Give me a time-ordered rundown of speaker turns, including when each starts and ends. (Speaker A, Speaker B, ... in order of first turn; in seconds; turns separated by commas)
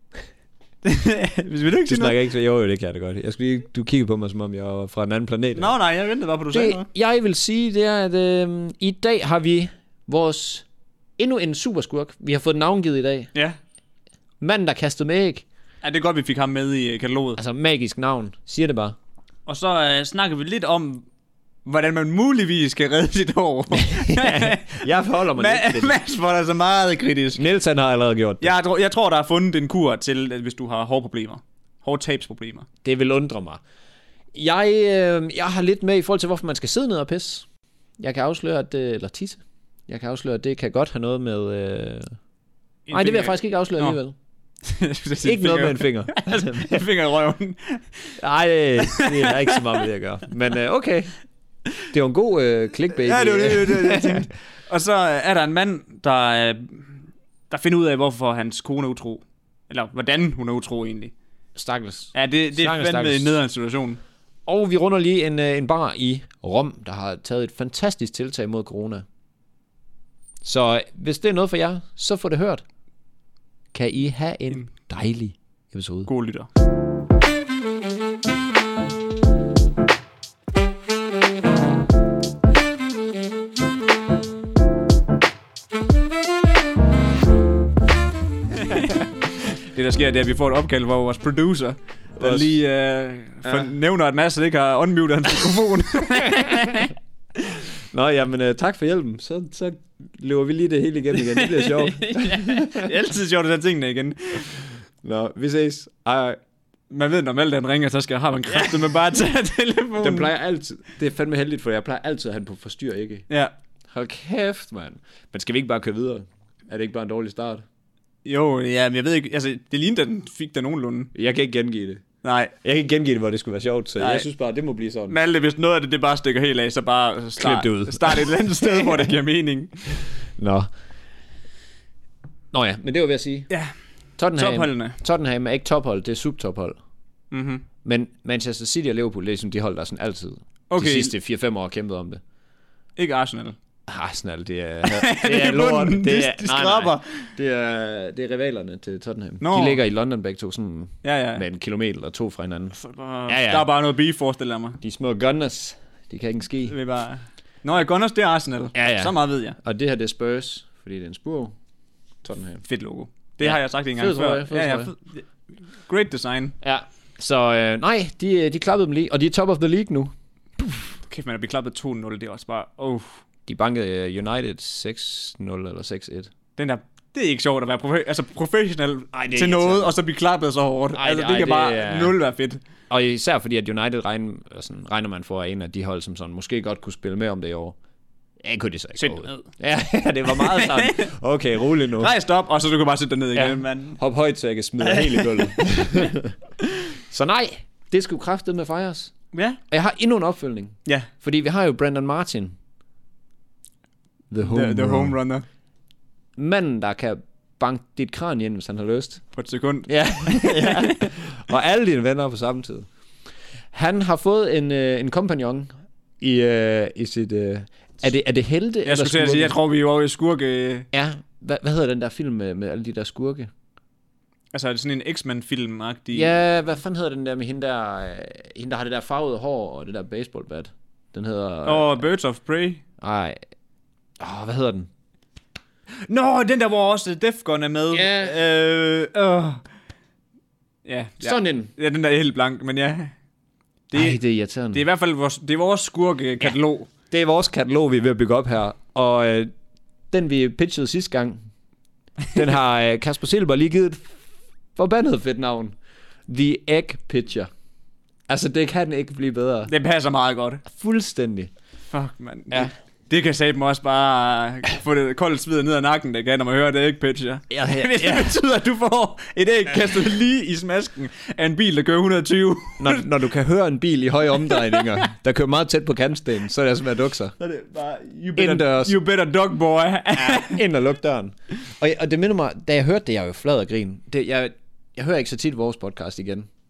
Speaker A: 0.8-2.2, Speaker B: 1.9-5.7, Speaker A: 5.6-6.9, Speaker B: 6.5-10.7, Speaker B: 11.2-13.3, Speaker B: 14.4-15.4, Speaker A: 15.8-17.4, Speaker B: 17.4-19.0, Speaker A: 19.5-21.1, Speaker A: 21.6-27.4, Speaker B: 23.8-25.9, Speaker B: 27.4-28.5, Speaker A: 28.4-32.7, Speaker B: 32.8-33.6, Speaker B: 34.3-37.5, Speaker B: 38.0-42.1, Speaker A: 42.9-44.0, Speaker B: 42.9-44.2, Speaker A: 44.6-48.1, Speaker B: 45.2-46.9, Speaker B: 48.2-51.1, Speaker A: 48.8-49.7, Speaker B: 51.9-54.3, Speaker A: 53.0-61.1, Speaker B: 61.6-63.4, Speaker A: 62.1-64.0, Speaker B: 64.5-69.0, Speaker B: 70.4-72.6, Speaker B: 73.7-76.1, Speaker A: 76.1-76.5, Speaker A: 88.6-97.0, Speaker B: 92.2-92.6, Speaker B: 93.4-93.7, Speaker B: 97.9-102.9, Speaker A: 101.1-104.5, Speaker B: 105.0-106.4, Speaker A: 106.9-110.3, Speaker B: 110.0-113.3, Speaker B: 113.9-117.7, Speaker A: 118.2-121.1, Speaker B: 121.1-122.0, Speaker A: 122.2-122.5, Speaker B: 122.6-125.2, Speaker A: 124.0-124.3, Speaker A: 125.1-129.8, Speaker B: 127.4-129.1, Speaker B: 130.4-130.7, Speaker B: 132.5-133.5, Speaker B: 134.2-136.8, Speaker A: 134.3-135.0, Speaker A: 137.3-137.7, Speaker B: 137.8-142.2, Speaker A: 140.7-141.1, Speaker A: 143.0-143.6, Speaker B: 143.9-153.7, Speaker A: 144.8-147.3, Speaker A: 149.4-149.8, Speaker A: 151.0-151.4, Speaker A: 152.8-154.8, Speaker B: 154.8-156.8, Speaker A: 156.7-159.6, Speaker B: 158.8-161.5, Speaker B: 162.2-162.7, Speaker A: 162.7-165.3, Speaker B: 163.4-164.9, Speaker A: 165.9-166.6, Speaker B: 166.6-170.1, Speaker A: 171.1-173.2, Speaker B: 173.5-176.3, Speaker A: 176.6-182.6, Speaker B: 179.1-179.9, Speaker B: 181.0-182.2, Speaker B: 182.9-187.8, Speaker B: 188.4-192.1, Speaker A: 189.0-189.4, Speaker A: 190.3-191.1, Speaker A: 192.0-194.0, Speaker B: 193.3-196.3, Speaker A: 194.8-196.1, Speaker B: 197.1-199.1, Speaker A: 199.3-199.6, Speaker B: 199.7-202.6, Speaker B: 204.3-205.2, Speaker A: 204.5-205.4, Speaker B: 206.4-209.2, Speaker A: 209.3-211.0, Speaker B: 209.9-212.9, Speaker B: 213.7-219.5, Speaker A: 218.8-220.9, Speaker B: 220.9-223.5, Speaker A: 224.5-226.3, Speaker B: 226.1-232.0, Speaker A: 231.7-232.8, Speaker B: 233.0-233.4, Speaker B: 234.2-234.9, Speaker A: 236.1-239.6, Speaker B: 237.9-238.3, Speaker A: 240.8-243.1, Speaker B: 241.2-241.7, Speaker A: 243.9-244.2, Speaker B: 243.9-244.8, Speaker A: 244.7-246.9, Speaker B: 247.1-249.5, Speaker B: 250.1-251.4, Speaker B: 252.3-254.2, Speaker B: 254.8-255.8, Speaker B: 256.3-257.5, Speaker B: 258.3-259.7, Speaker A: 259.7-260.6, Speaker B: 260.7-261.5, Speaker A: 261.9-273.0, Speaker B: 267.5-268.4, Speaker B: 272.8-277.3, Speaker A: 274.5-275.0, Speaker A: 277.4-280.6, Speaker B: 278.4-278.9, Speaker B: 280.2-286.5